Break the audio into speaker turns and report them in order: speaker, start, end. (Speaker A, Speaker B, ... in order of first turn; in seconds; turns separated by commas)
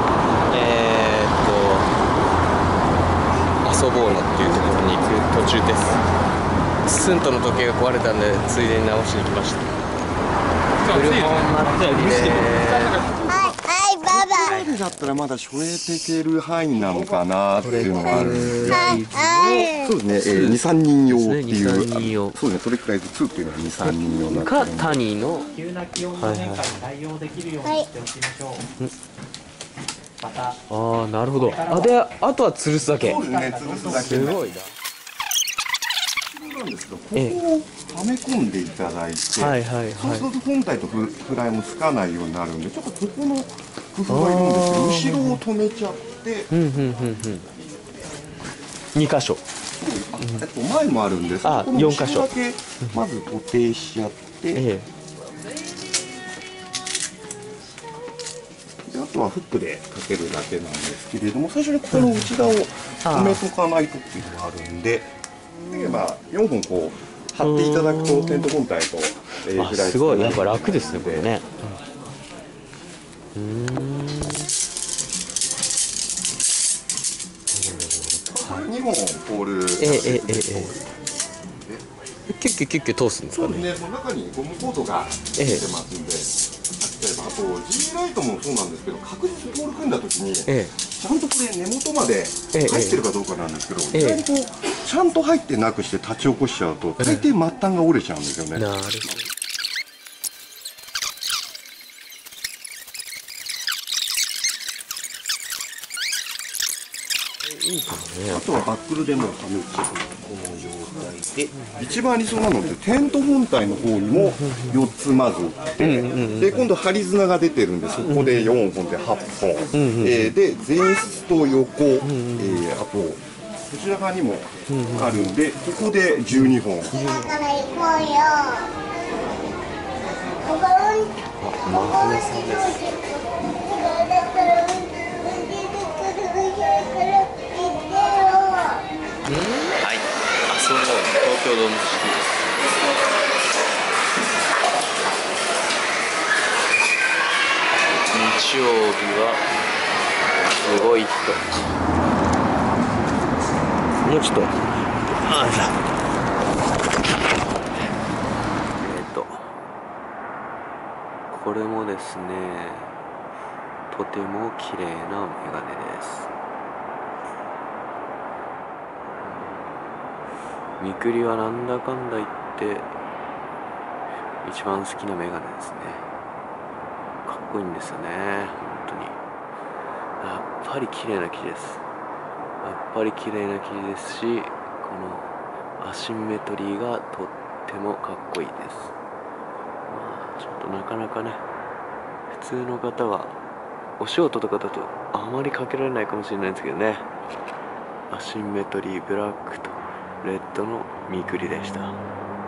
Speaker A: 0.5-1.9, Speaker A: 3.6-6.0, Speaker A: 6.9-9.7, Speaker A: 10.9-13.1, Speaker B: 13.3-14.2, Speaker C: 14.1-25.0, Speaker A: 14.5-14.9, Speaker A: 17.6-22.4, Speaker B: 18.7-19.9, Speaker A: 23.8-25.5, Speaker D: 25.6-28.7, Speaker A: 26.1-26.8, Speaker B: 27.6-27.9, Speaker D: 30.2-30.6, Speaker A: 30.7-33.2, Speaker C: 32.9-34.6, Speaker A: 33.9-34.7, Speaker C: 36.3-46.5, Speaker A: 37.1-37.4, Speaker A: 39.4-40.3, Speaker A: 44.1-45.4, Speaker A: 46.5-47.5, Speaker A: 49.0-49.4, Speaker C: 49.8-54.7, Speaker A: 51.4-53.0, Speaker A: 54.5-54.9, Speaker C: 58.9-65.1, Speaker A: 61.9-62.4, Speaker A: 63.0-63.4, Speaker C: 65.7-71.3, Speaker A: 67.4-68.6, Speaker A: 69.6-71.8, Speaker A: 73.3-74.5, Speaker A: 77.5-78.7, Speaker C: 78.3-80.9, Speaker A: 79.8-80.8, Speaker A: 82.3-83.7, Speaker C: 83.3-99.3, Speaker A: 85.4-85.6, Speaker A: 90.5-90.7, Speaker A: 92.5-93.0, Speaker A: 93.9-94.3, Speaker A: 97.0-97.3, Speaker A: 98.5-99.3, Speaker A: 107.5-108.5, Speaker C: 108.3-127.0, Speaker A: 114.1-114.9, Speaker A: 115.8-116.7, Speaker A: 118.0-118.5, Speaker A: 119.7-120.3, Speaker A: 122.0-122.6, Speaker A: 124.7-125.3, Speaker A: 126.3-127.4, Speaker B: 127.1-128.7, Speaker B: 130.4-131.1, Speaker A: 131.4-132.9, Speaker B: 131.8-138.8, Speaker A: 139.3-142.4, Speaker A: 148.1-149.4, Speaker A: 150.6-151.4, Speaker A: 154.0-154.5, Speaker A: 155.2-155.8, Speaker A: 158.8-159.5, Speaker A: 161.3-162.9, Speaker A: 163.9-166.3, Speaker A: 169.2-169.7, Speaker A: 170.8-172.9, Speaker A: 174.4-176.1, Speaker A: 177.2-179.2, Speaker A: 180.2-181.8, Speaker A: 182.6-188.9, Speaker A: 189.9-191.4, Speaker A: 192.3-193.4, Speaker A: 194.0-197.1, Speaker A: 198.1-202.0